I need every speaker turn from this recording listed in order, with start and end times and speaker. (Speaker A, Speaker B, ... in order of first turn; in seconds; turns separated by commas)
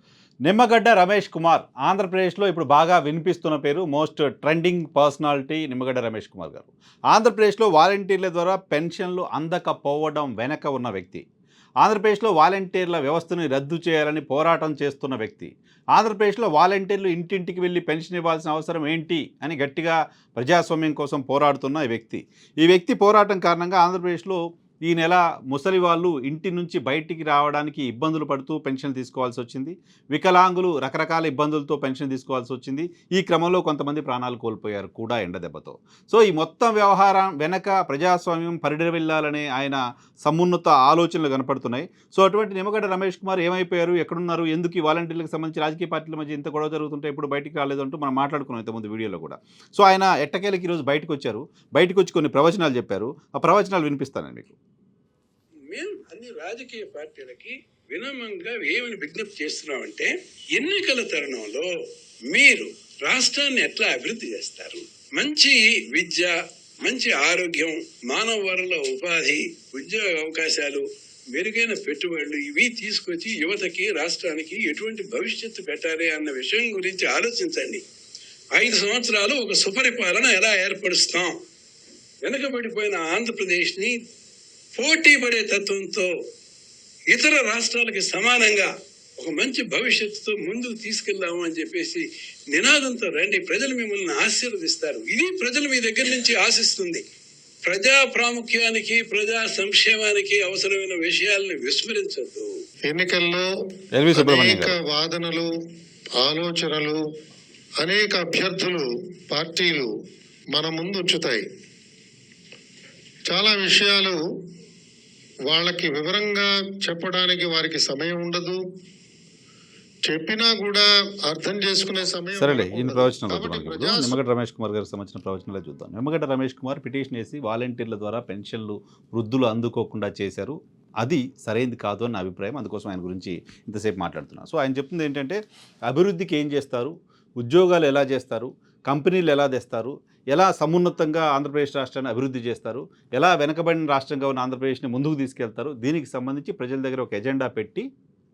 Speaker A: 0.4-11.2, Speaker A: 11.8-54.5, Speaker B: 55.7-61.7, Speaker B: 62.3-77.8, Speaker B: 78.5-81.3, Speaker B: 82.2-84.0, Speaker B: 84.7-86.1, Speaker B: 87.1-97.0, Speaker B: 97.6-102.5, Speaker C: 102.9-103.4, Speaker A: 103.9-104.8, Speaker C: 104.1-105.5, Speaker C: 106.2-107.0, Speaker C: 107.8-109.9, Speaker C: 110.5-111.4, Speaker C: 113.3-114.2, Speaker C: 115.5-118.6, Speaker C: 120.0-124.2, Speaker A: 122.4-147.8